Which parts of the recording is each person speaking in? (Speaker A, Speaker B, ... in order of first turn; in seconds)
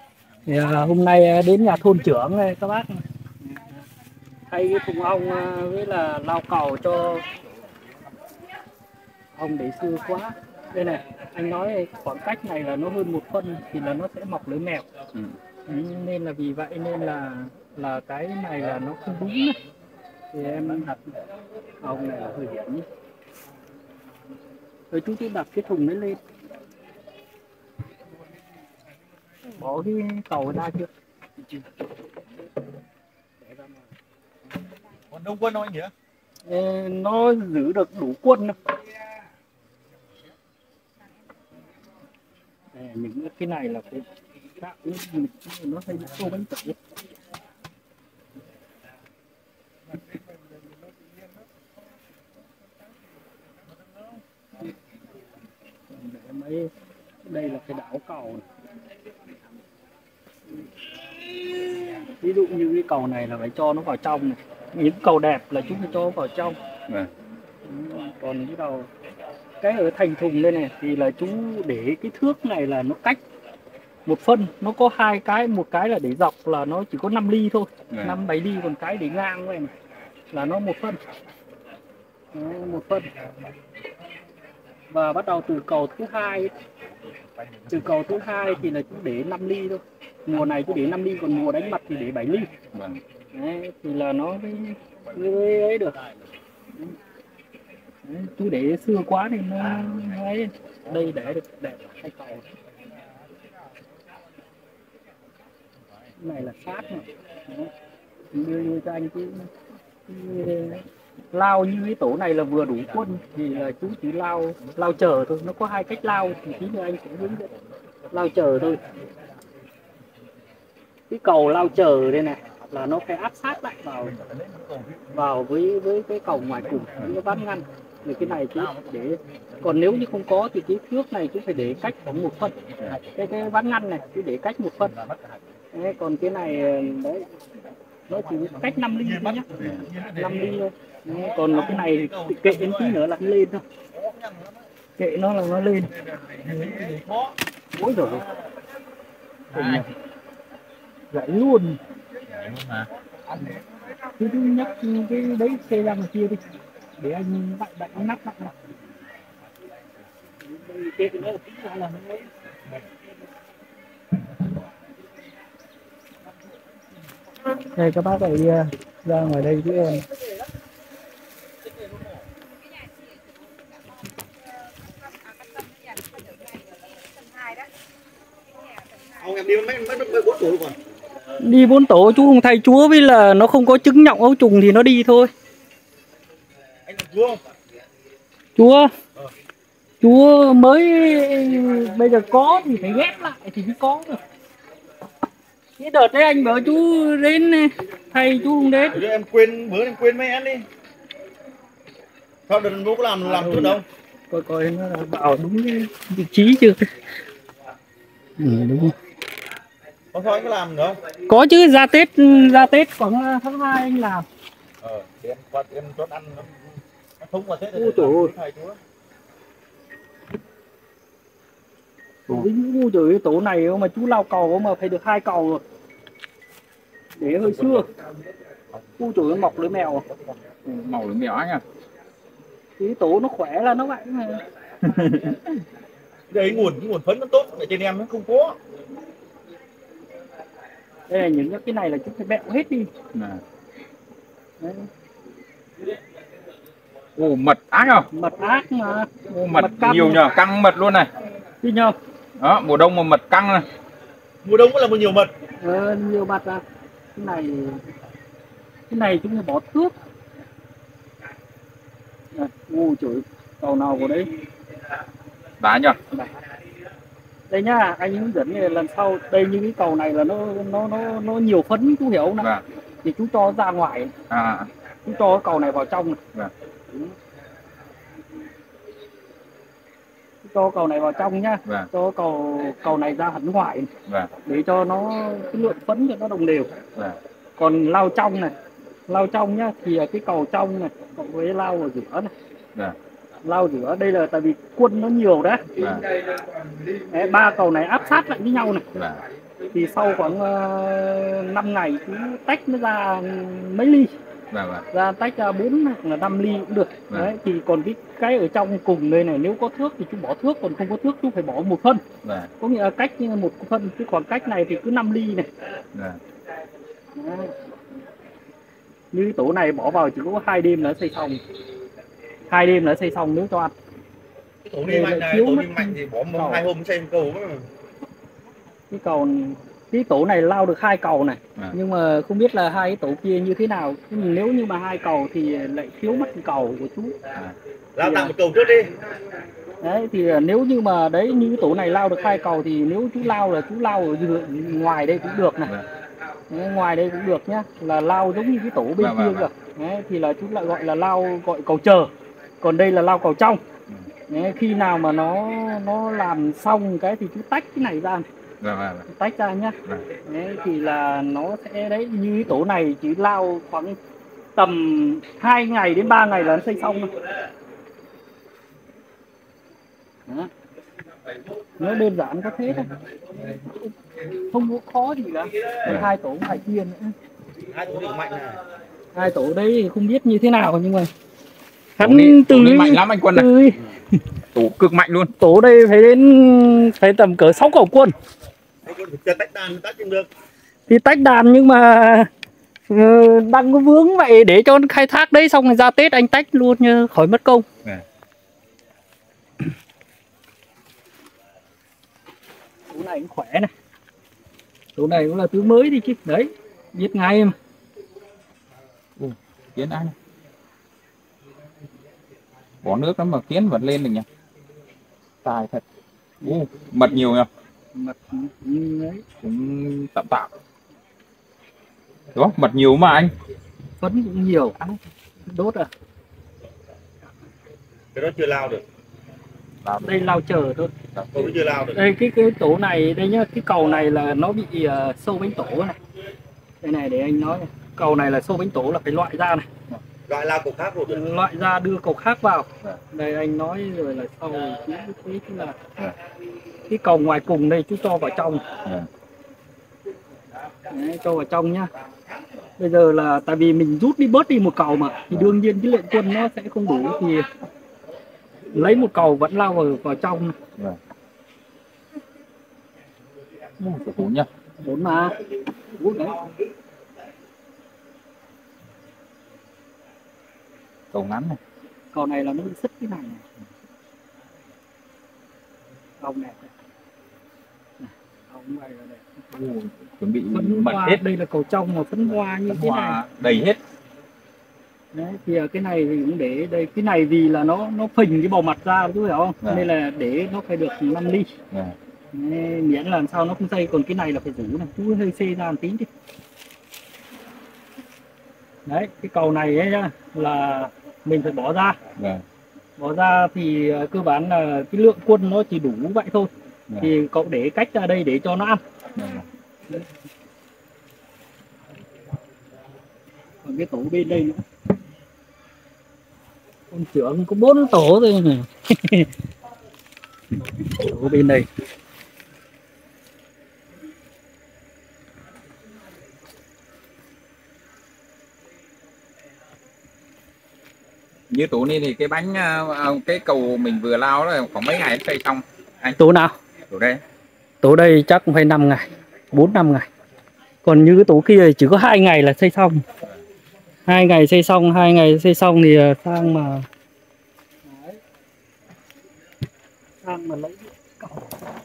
Speaker A: 0.5-3.8, 4.5-7.2, 9.3-14.8, 15.7-19.6, 20.3-21.2, 21.8-22.9, 24.9-26.2, 29.5-30.9, 33.4-33.8, 36.4-38.5, 42.7-44.1, 44.6-46.8, 55.9-56.7, 57.2-58.5, 62.1-66.6, 67.6-68.9, 69.6-73.2, 74.0-79.7, 80.3-81.0, 82.3-83.1, 84.9-86.5, 87.7-92.5, 93.3-96.0, 98.0-102.5, 106.2-107.7, 108.3-109.5, 110.0-117.5, 118.1-118.8, 121.1-124.1, 125.1-134.9, 135.7-137.2, 138.1-143.6, 145.0-145.9, 147.7-148.3, 149.5-149.9, 151.1-151.8, 154.1-156.4, 157.0-158.5, 160.4-162.3, 167.5-170.1, 181.4-185.3, 188.6-188.9, 190.0-194.2, 195.8-199.0, 203.2-206.9, 208.4-208.9, 211.2-214.2, 217.7-218.3, 222.3-225.6, 227.2-227.9, 229.0-230.0, 232.8-234.4, 241.1-242.9, 244.6-244.9, 248.1-250.2, 251.6-251.9, 255.6-256.6, 257.1-257.8, 258.9-259.9, 262.3-264.3, 267.5-272.5, 273.0-274.1, 275.0-276.2, 280.4-283.9, 284.4-286.7, 287.6-288.5, 289.1-292.3, 293.4-295.6, 297.0-298.9, 299.7-304.1, 304.9-312.0, 312.6-315.5, 317.1-317.6, 319.1-321.4, 322.5-323.7, 324.8-326.6, 328.9-337.1, 338.0-338.3, 339.8-345.7, 346.5-352.1, 352.6-353.6, 354.3-358.2, 359.1-364.0, 364.6-367.1, 370.2-370.5, 371.8-372.9, 373.5-377.1, 379.1-381.1, 382.0-384.0, 385.4-388.1, 390.9-392.3, 392.9-397.6, 402.9-403.7, 404.9-407.5, 417.9-419.2, 424.0-424.8, 425.4-425.9, 430.0-430.9, 431.9-436.0, 436.8-439.6, 441.1-445.9, 446.9-448.6, 450.9-451.9, 452.8-457.5, 458.7-460.5, 464.8-466.5, 472.1-473.4, 476.2-476.7, 478.0-479.2, 480.5-483.2, 485.1-491.5, 492.3-496.1, 498.9-502.0, 503.0-508.8, 513.6-514.6, 516.9-519.3, 520.6-521.7, 536.0-536.5, 537.8-540.1, 540.8-543.0, 544.0-546.9, 547.8-548.2, 550.2-551.6
Speaker B: 35.1-35.9, 124.3-125.0, 134.9-135.4, 139.0-140.6, 141.1-143.0, 143.9-144.6, 146.0-147.3, 171.7-172.1, 179.1-180.8, 186.8-187.4, 198.9-200.7, 202.5-203.8, 210.1-211.0, 214.8-216.6, 217.2-218.8, 236.3-238.6, 254.4-255.3, 324.6-327.7, 337.9-338.9, 377.7-378.6, 388.8-390.3, 428.1-428.8, 431.3-432.0, 440.3-441.2
Speaker C: 77.9-78.2, 92.7-93.0, 149.5-149.9, 152.3-152.9, 230.7-231.6, 234.8-235.4, 243.1-243.4, 247.2-248.1, 249.3-251.1, 252.4-253.7, 265.6-266.0, 274.3-274.7, 284.1-284.3, 295.8-296.1, 298.9-299.2, 304.5-304.9, 312.2-312.5, 315.9-316.2, 349.0-349.5, 358.6-359.1, 382.0-383.5, 384.5-385.3, 409.2-410.1, 412.8-414.2, 415.4-415.8, 416.4-417.5, 419.4-420.5, 422.3-423.3, 429.8-430.2, 431.1-431.5, 463.8-464.5, 471.1-471.6, 479.5-481.2, 482.6-483.8, 489.6-489.9, 491.7-491.9, 502.2-502.4, 509.1-509.5, 531.5-536.1, 536.9-537.2